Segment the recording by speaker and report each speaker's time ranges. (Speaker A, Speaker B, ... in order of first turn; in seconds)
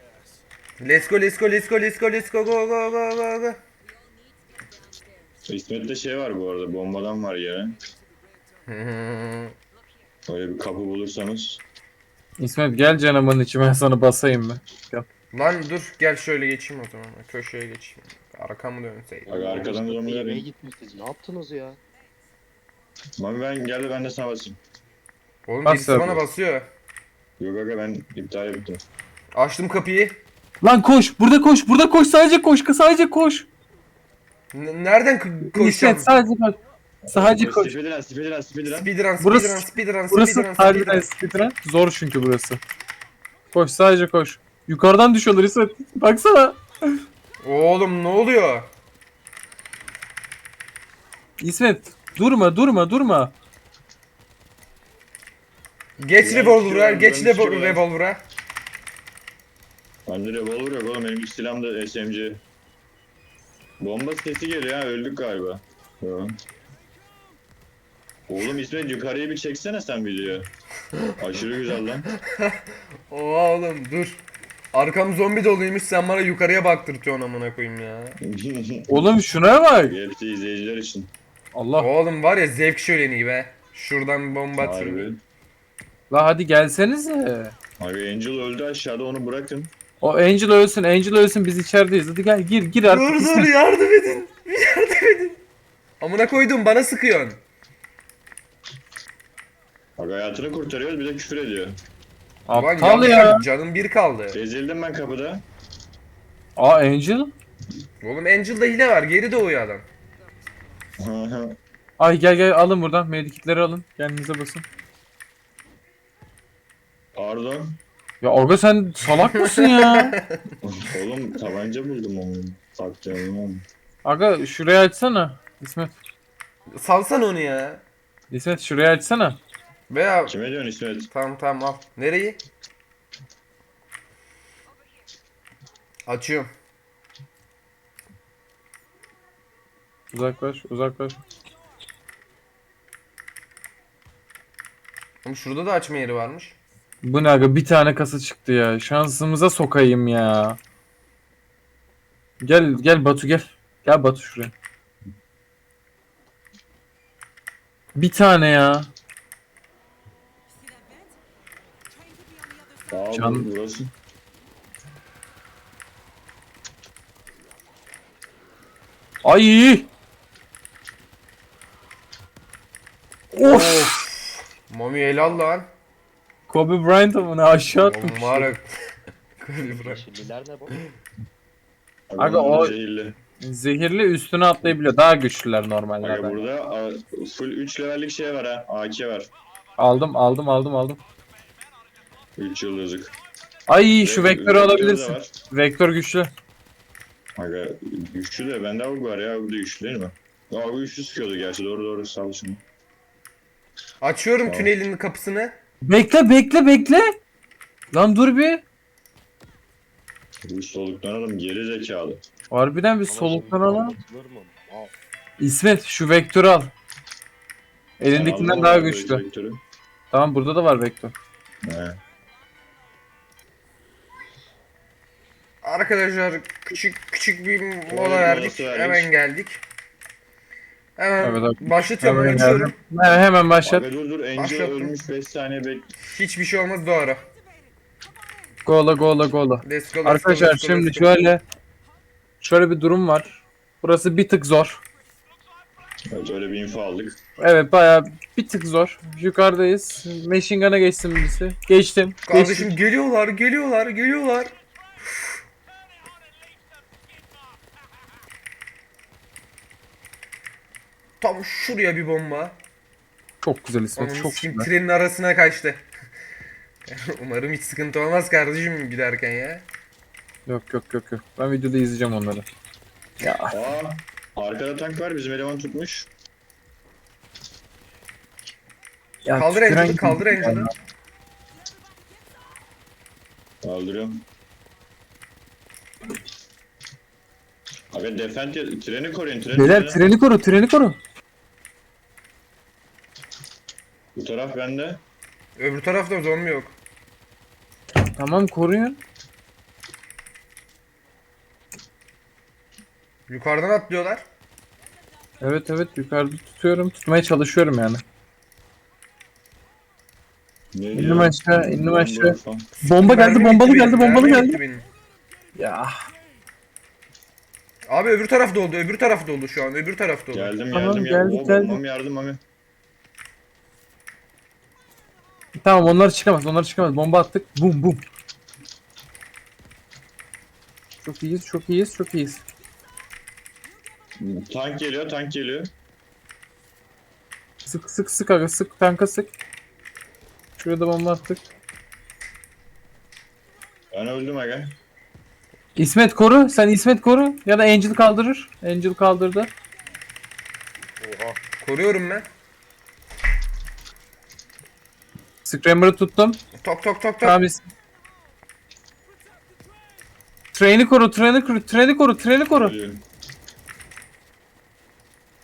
Speaker A: 0.8-3.6, 8.7-9.6, 15.3-19.4, 25.5-26.7, 29.4-30.2, 34.5-36.1, 38.7-41.1, 47.4-48.7, 56.0-58.2, 72.2-74.2, 74.7-78.2, 81.8-85.1, 92.8-95.4, 96.0-97.4, 102.5-104.4, 108.0-109.9, 119.4-120.4, 126.8-127.8, 129.9-130.3, 131.1-132.4, 136.1-136.5, 145.2-146.6, 173.4-175.7, 177.7-178.7, 179.4-180.1, 204.0-205.6, 225.6-229.6, 231.0-232.8, 234.3-234.9, 236.1-237.3, 239.6-241.2, 252.2-254.5, 261.2-262.6, 264.0-265.9, 266.9-269.7, 279.4-280.7, 295.6-296.8, 303.3-304.2, 312.8-314.9, 317.9-320.5, 351.6-352.3, 356.6-357.4
Speaker B: 5.5-7.8, 10.3-11.6, 19.3-20.5, 23.2-24.6, 27.4-28.8, 37.0-38.9, 56.2-57.8, 60.1-62.4, 63.8-66.3, 68.3-70.5, 71.2-72.1, 78.2-79.0, 79.8-81.1, 84.6-85.2, 87.8-89.7, 100.0-101.8, 104.3-105.4, 111.0-111.6, 117.2-117.8, 120.6-123.7, 130.3-131.1, 162.9-163.9, 182.1-183.2, 186.0-189.3, 192.4-193.1, 194.0-195.3, 197.4-202.6, 204.5-204.7, 210.5-212.2, 218.1-219.6, 221.6-222.0, 227.9-229.1, 233.6-235.9, 246.1-247.2, 273.5-276.1, 283.6-284.2, 287.9-290.0, 294.1-295.0, 310.7-312.7, 320.3-322.4, 334.2-335.7, 343.9-344.7, 362.5-363.0
Speaker C: 12.4-15.1, 25.7-26.2, 30.6-33.5, 35.5-36.6, 37.1-37.8, 39.2-42.6, 43.5-46.6, 51.4-53.3, 78.9-80.0, 81.5-81.9, 86.1-87.5, 90.0-93.5, 102.5-103.5, 106.6-107.3, 112.0-114.6, 118.2-120.2, 124.0-125.9, 128.3-129.4, 140.1-141.2, 147.0-150.6, 152.4-154.5, 157.9-158.9, 163.1-163.5, 169.2-169.9, 173.3-174.0, 176.5-178.5, 182.2-182.8, 183.4-186.5, 189.8-191.0, 193.7-196.3, 205.8-207.1, 207.9-208.6, 212.5-214.0, 215.4-216.7, 218.0-219.2, 220.1-221.2, 231.2-233.9, 238.7-241.4, 242.4-244.8, 247.4-252.7, 263.4-264.7, 270.5-272.5, 273.2-273.6, 279.2-280.7, 289.5-291.0, 298.1-299.0, 305.4-308.0, 310.9-314.6, 315.6-315.9, 320.7-321.8, 325.6-328.0, 331.0-332.4, 337.7-339.3, 340.6-341.4, 345.8-349.5, 355.4-356.4, 357.2-357.6, 360.5-362.8
Speaker D: 19.3-21.8, 179.7-180.8, 213.1-214.9, 351.0-351.4